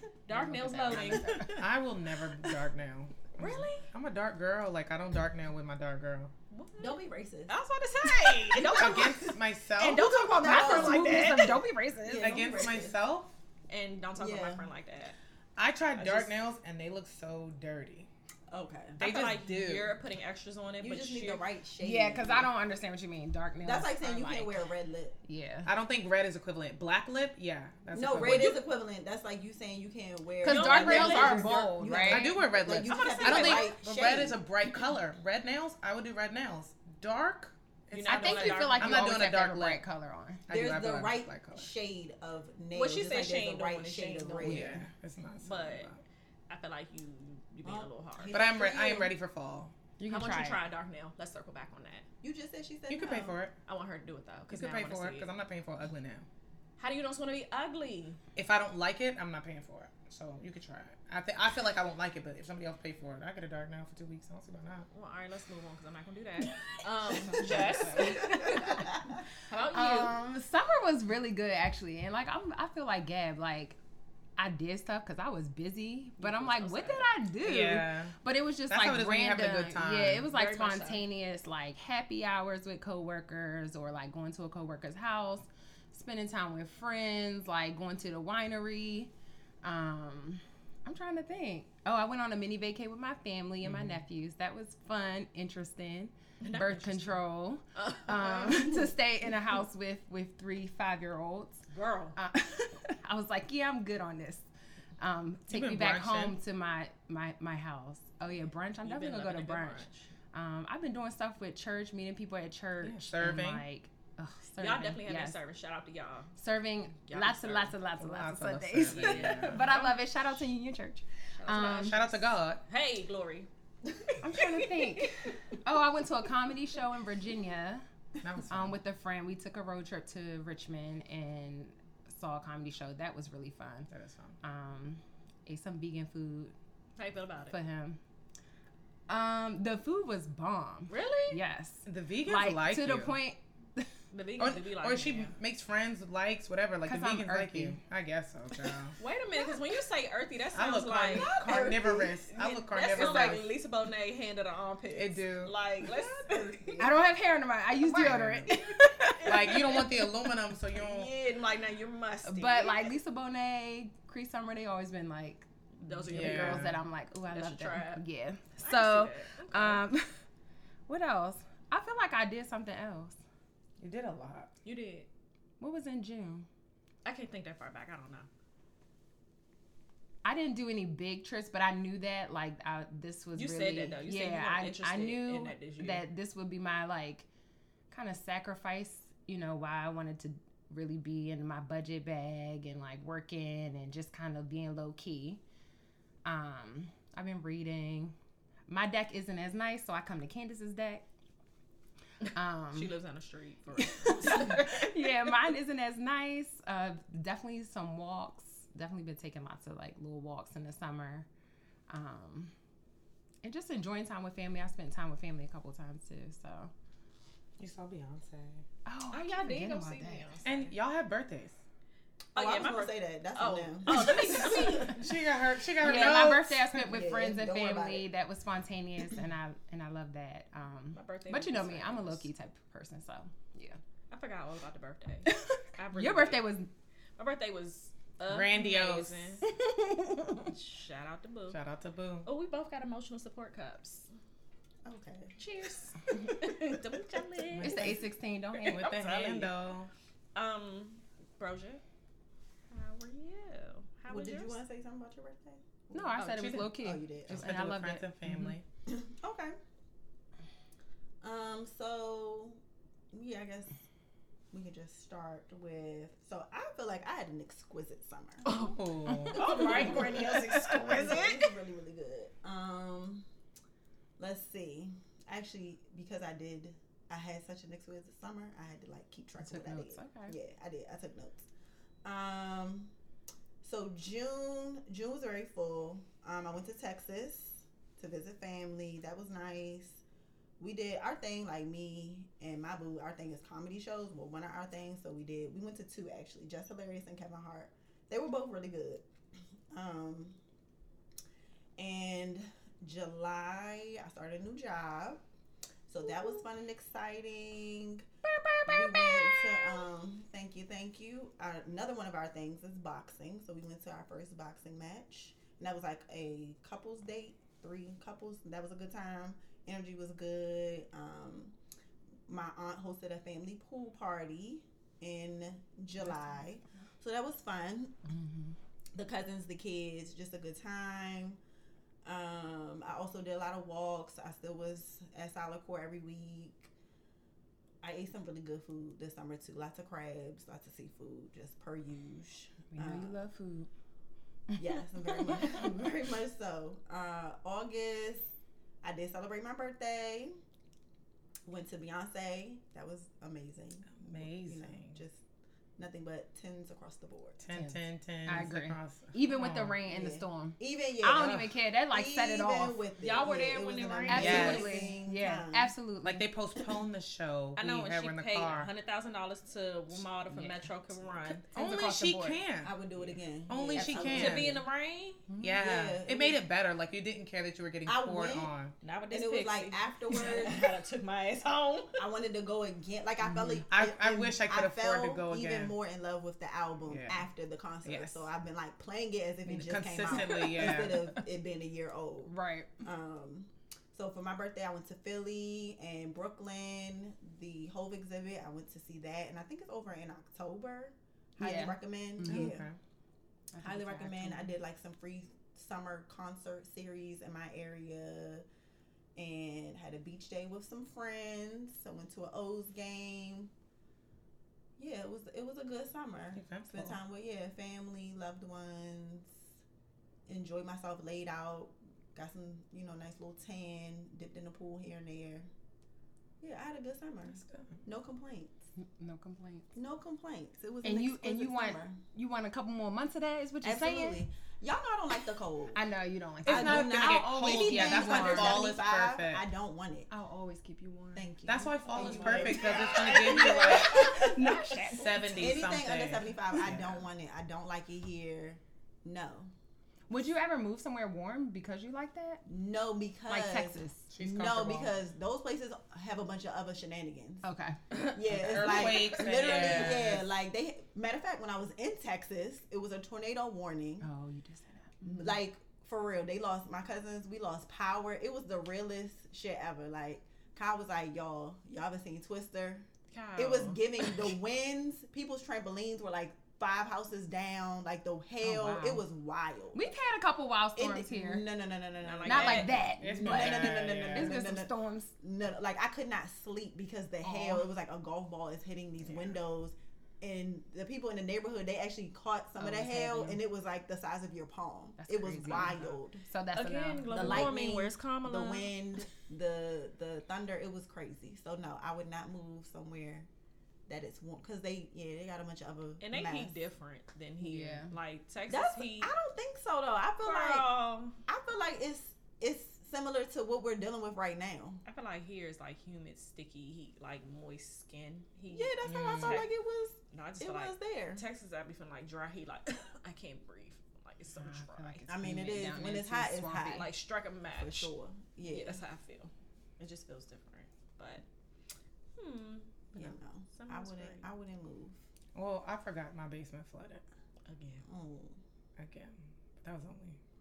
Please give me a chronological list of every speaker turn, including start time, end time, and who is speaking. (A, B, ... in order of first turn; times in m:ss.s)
0:00.2-0:01.7 A
0:00.3-0:01.6 B
0:01.4-0:06.3 C
0:03.4-0:03.9 A
0:06.5-0:11.6 A
0:06.8-0:09.4 D
0:08.8-0:10.1 C
0:09.8-0:12.4 B
0:10.0-0:13.0 D
0:12.1-0:13.3 C
0:13.7-0:15.2 A
0:14.2-0:14.6 D
0:15.6-0:18.1 C
0:16.0-0:16.4 A
0:18.5-0:19.0 D
0:19.0-0:21.4 A
0:19.0-0:20.0 C
0:20.8-0:22.5 D
0:21.8-0:24.6 B
0:23.6-0:25.2 D
0:25.2-0:25.7 B
0:25.6-0:28.6 C
0:27.9-0:34.4 D
0:28.1-0:28.6 A
0:30.4-0:32.3 B
0:30.4-0:31.8 A
0:32.0-0:39.8 C
0:32.8-0:34.2 A
0:37.9-0:39.2 A
0:38.1-0:40.4 B
0:40.5-0:41.7 C
0:40.5-0:44.8 D
0:42.7-0:44.8 A
0:44.4-0:46.0 C
0:45.4-0:45.9 A
0:46.5-0:48.4 A
0:47.6-0:49.1 D
0:48.3-0:49.7 C
0:50.0-0:50.6 B
0:50.1-0:52.0 A
0:52.2-0:53.4 D
0:52.9-0:53.5 C
0:53.6-0:55.3 A
0:54.5-0:56.3 C
0:56.8-0:58.2 A
0:58.4-1:04.9 C
1:04.9-1:10.1 A
1:07.4-1:08.3 B
1:07.4-1:07.9 C
1:09.7-1:13.8 B
1:14.4-1:29.1 B
1:16.2-1:17.0 A
1:17.4-1:18.1 C
1:18.7-1:20.3 C
1:20.3-1:21.0 A
1:29.6-1:41.6 B
1:33.6-1:34.0 C
1:36.4-1:37.2 A
1:37.7-1:38.8 A
1:41.7-1:42.2 A
1:42.2-1:44.4 B
1:45.0-1:55.4 B
1:45.5-1:46.4 C
1:48.8-1:50.1 A
1:52.8-1:53.6 C
1:54.6-1:56.3 A
1:56.4-2:02.0 B
1:57.1-1:57.8 A
1:58.0-1:59.7 C
1:58.9-2:00.0 A
2:01.4-2:05.4 A
2:01.8-2:02.6 C
2:04.2-2:07.8 B
2:08.2-2:08.8 C
2:08.5-2:13.9 B
2:13.9-2:14.4 C
2:14.4-2:16.5 B
2:17.0-2:17.6 A
2:17.5-2:18.0 B
2:19.1-2:23.9 B
2:20.9-2:21.4 A
2:21.8-2:23.2 C
2:24.1-2:25.3 A
2:24.4-2:28.9 C
2:26.8-2:27.8 B
2:29.0-2:36.9 A
2:30.5-2:33.4 C
2:31.1-2:32.2 D
2:32.9-2:33.4 D
2:34.9-2:35.6 C
2:35.8-2:37.0 D
2:36.8-2:39.8 B
2:37.9-2:38.1 A
2:37.9-2:38.6 C
2:38.8-2:39.9 A
2:39.2-2:41.1 C
2:40.7-2:42.9 A
2:42.2-2:50.1 B
2:45.8-2:46.8 A
2:46.1-2:46.8 C
2:47.3-2:48.0 A
2:48.6-2:49.8 A
2:50.9-2:53.2 B
2:53.8-2:54.5 C
2:54.6-2:55.1 A
2:55.6-2:56.4 B
2:57.0-2:58.3 A
3:00.2-3:07.2 B
3:03.4-3:06.0 A
3:07.9-3:15.4 B
3:16.2-3:18.1 B
3:18.7-3:21.0 B
3:22.3-3:22.9 B
3:22.7-3:24.9 A
3:23.8-3:31.3 B
3:31.9-3:32.5 B
3:33.4-3:36.7 B
3:37.6-3:38.6 C
3:38.8-3:40.2 B
3:39.1-3:40.7 A
3:40.4-3:41.6 C
3:42.3-3:45.0 A
3:42.3-3:45.0 D
3:44.8-3:46.9 C
3:45.8-3:53.8 B
3:46.8-3:48.0 D
3:50.9-3:52.3 A
3:54.1-3:56.4 A
3:55.3-3:56.7 B
3:57.2-3:59.4 A
3:58.2-3:59.4 C
3:59.4-4:00.5 B
4:00.5-4:01.6 A
4:01.5-4:02.3 C
4:02.2-4:04.1 A
4:04.8-4:05.4 D
4:05.4-4:07.9 A
4:07.6-4:07.9 C
4:07.6-4:08.9 B
4:08.6-4:09.5 A
4:08.7-4:09.9 C
4:10.3-4:11.8 A
4:12.7-4:14.6 A
4:14.1-4:17.5 D
4:15.9-4:18.6 B
4:16.2-4:16.7 A
4:17.3-4:18.6 C
4:18.9-4:19.6 D
4:21.2-4:22.6 D
4:23.1-4:23.8 D
4:24.5-4:28.4 D
4:28.4-4:30.0 C
4:28.4-4:31.5 A
4:29.3-4:33.2 D
4:34.2-4:41.4 D
4:39.4-4:40.4 B
4:42.0-4:42.9 D
4:43.6-4:50.0 D
4:50.6-4:59.0 D
4:59.7-5:00.4 D
5:01.8-5:05.2 D
5:05.9-5:08.1 D
5:08.3-5:09.5 A
5:08.6-5:21.5 D
5:22.3-5:28.0 D
5:26.0-5:26.4 B
5:28.1-5:28.5 B
5:28.9-5:31.4 D
5:32.0-5:36.6 D
5:37.8-5:43.2 D
5:42.7-5:43.7 B
5:44.6-5:48.3 D
5:48.8-5:50.3 D
5:51.4-5:55.2 D
5:53.9-5:55.0 C
5:55.8-5:57.4 D
5:57.4-5:59.8 C
5:57.5-6:02.8 B
5:59.8-6:05.7 D
6:01.2-6:01.4 C
6:03.0-6:04.9 A
6:04.1-6:06.3 B
6:04.1-6:04.7 C
6:06.0-6:08.7 C
6:07.6-6:11.4 A
6:10.3-6:10.7 B
6:11.3-6:12.7 C
6:11.5-6:12.4 B
6:12.6-6:14.6 D
6:13.5-6:14.6 C
6:13.9-6:15.2 A
6:15.3-6:15.6 B
6:15.4-6:18.7 C
6:15.5-6:16.4 D
6:17.8-6:18.5 D
6:18.8-6:22.0 A
6:19.1-6:20.7 D
6:22.0-6:42.6 D
6:23.3-6:23.6 B
6:23.7-6:25.7 C
6:26.9-6:27.3 C
6:27.8-6:28.3 C
6:29.5-6:31.2 C
6:32.3-6:32.7 B
6:41.4-6:42.6 B
6:42.2-6:42.8 C
6:43.5-6:44.5 B
6:43.6-6:48.4 D
6:49.2-6:53.5 D
6:54.8-6:59.3 D
6:56.3-6:57.0 C
7:00.3-7:05.5 D
7:06.4-7:08.5 D
7:07.3-7:07.8 C
7:08.8-7:09.7 B
7:09.7-7:12.0 D
7:10.8-7:14.2 B
7:13.6-7:15.8 D
7:15.7-7:18.6 B
7:16.4-7:20.1 D
7:16.4-7:19.4 C
7:20.1-7:22.6 B
7:21.2-7:24.4 D
7:21.5-7:24.2 C
7:21.9-7:25.2 A
7:23.4-7:25.6 B
7:24.9-7:27.0 C
7:25.4-7:29.5 D
7:30.1-7:32.4 B
7:32.4-7:37.4 D
7:33.3-7:34.1 B
7:34.1-7:34.9 C
7:37.4-7:37.8 B
7:37.9-7:40.0 A
7:38.0-7:44.1 D
7:38.3-7:40.3 C
7:44.0-7:45.3 B
7:45.0-7:59.8 D
7:53.1-7:54.3 A
7:58.4-7:59.0 B
7:59.7-8:01.5 B
8:00.8-8:16.2 D
8:02.0-8:02.8 A
8:02.2-8:05.1 B
8:03.0-8:04.4 C
8:07.2-8:07.7 B
8:12.6-8:13.4 B
8:15.0-8:17.6 B
8:15.5-8:15.8 C
8:16.5-8:18.7 A
8:17.1-8:23.3 D
8:23.9-8:26.6 D
8:26.0-8:29.1 A
8:27.4-8:27.9 B
8:28.5-8:30.7 D
8:30.2-8:31.2 A
8:31.2-8:34.8 D
8:34.8-8:39.5 A
8:38.5-8:41.2 D
8:38.8-8:39.4 C
8:40.1-8:45.0 A
8:44.4-8:46.9 B
8:45.1-8:46.9 D
8:46.7-8:47.9 A
8:47.4-8:48.8 D
8:48.4-8:51.2 A
8:52.2-8:54.2 A
8:52.9-8:55.0 D
8:55.3-8:57.0 C
8:57.5-8:57.8 A
8:57.8-8:58.4 D
8:58.8-9:00.2 C